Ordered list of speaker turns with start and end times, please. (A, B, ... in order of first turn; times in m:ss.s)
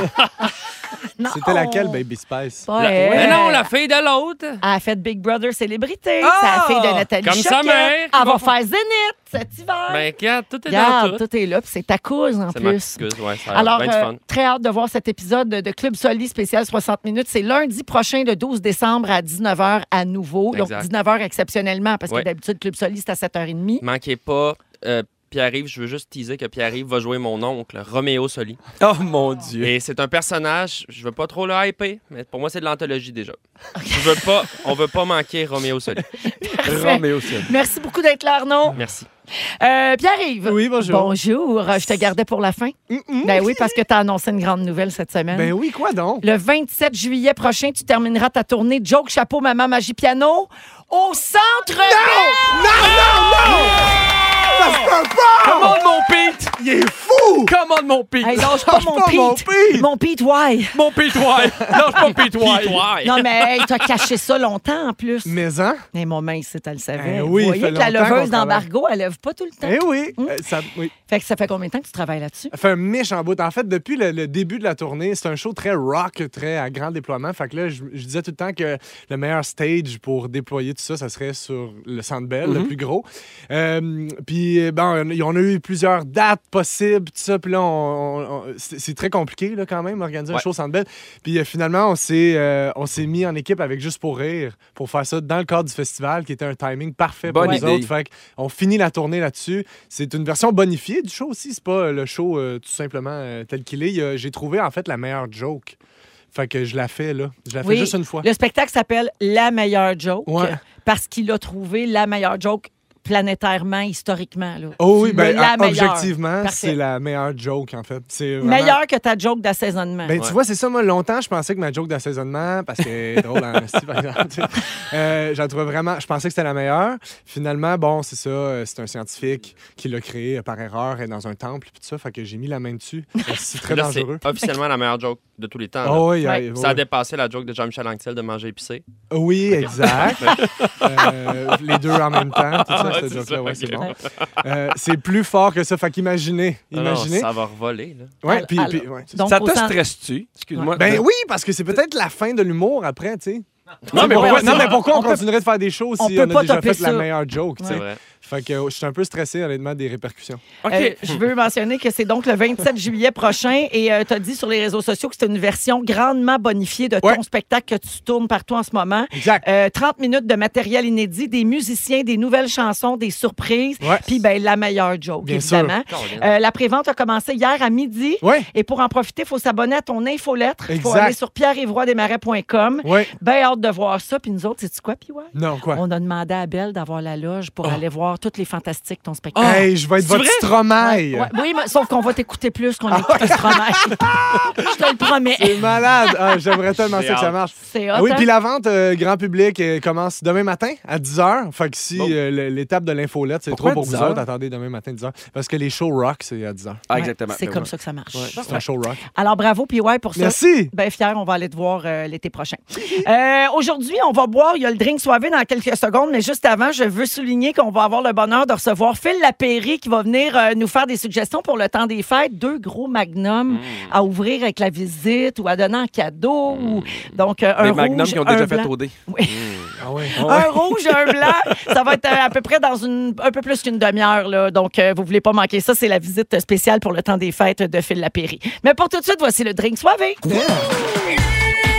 0:01.2-0:02.0 A
0:01.3-0:02.7 B
0:02.6-0:03.7 A
0:02.8-0:04.6 C
0:03.0-0:03.4 D
0:04.6-0:10.0 A
0:06.2-0:07.1 D
0:07.2-0:08.4 C
0:09.9-0:11.2 C
0:10.7-0:23.8 A
0:12.5-0:14.2 C
0:20.5-0:20.9 C
0:23.8-0:28.6 C
0:28.8-0:29.7 D
0:29.6-0:33.4 C
0:33.8-0:34.0 A
0:33.9-0:36.0 C
0:36.2-0:38.8 A
0:36.6-0:37.5 D
0:38.7-0:39.1 C
0:39.6-0:45.5 A
0:40.4-0:41.2 B
0:42.9-0:43.8 B
0:45.3-0:46.2 B
0:46.2-0:53.6 A
0:51.8-0:53.8 B
0:54.5-0:55.9 B
0:54.5-0:54.9 C
0:55.4-0:56.6 D
0:56.6-0:57.5 B
0:57.4-0:58.5 D
0:58.2-1:00.8 A
0:58.4-0:59.9 B
1:00.7-1:02.9 D
1:02.3-1:03.9 C
1:03.0-1:05.4 A
1:05.2-1:05.8 B
1:05.9-1:10.4 A
1:07.0-1:08.7 B
1:09.6-1:10.9 B
1:11.1-1:12.5 A
1:12.5-1:45.8 B
1:22.4-1:22.7 D
1:37.3-1:37.9 D
1:46.3-1:48.3 B
1:47.6-1:56.8 A
1:50.2-1:50.6 B
1:54.8-1:58.8 B
1:58.4-2:00.2 A
2:00.0-2:14.2 B
2:13.7-2:18.8 C
2:15.8-2:16.8 B
2:16.2-2:16.5 A
2:19.1-2:27.3 B
2:19.5-2:24.3 C
2:26.7-2:28.1 C
2:28.2-2:29.2 B
2:28.2-2:29.8 A
2:29.2-2:31.0 D
2:30.5-2:31.0 A
2:30.8-2:40.4 B
2:33.9-2:34.2 C
2:33.9-2:34.8 D
2:33.9-2:35.2 A
2:36.0-2:37.8 A
2:37.6-2:38.0 C
2:40.6-2:41.0 D
2:40.7-3:09.7 A
2:49.1-2:49.4 B
2:53.8-2:54.1 B
2:55.2-2:55.7 B
2:55.9-2:56.3 C
2:58.2-2:58.5 B
3:00.7-3:01.2 B
3:02.8-3:03.1 B
3:05.3-3:05.8 B
3:09.4-3:11.3 B
3:09.4-3:10.5 C
3:10.8-3:14.0 A
3:12.9-3:14.5 B
3:14.6-3:15.8 A
3:15.4-3:26.8 B
3:16.8-3:17.4 C
3:17.6-3:18.3 A
3:23.5-3:24.2 D
3:26.9-3:28.3 D
3:26.9-3:49.5 A
3:28.3-3:29.0 B
3:30.1-3:30.7 B
3:43.5-3:43.9 C
3:46.5-3:47.1 C
3:47.6-3:48.9 D
3:49.3-3:49.8 C
3:49.8-3:50.2 B
3:50.1-4:00.3 A
3:50.2-3:51.3 D
4:00.2-4:00.7 B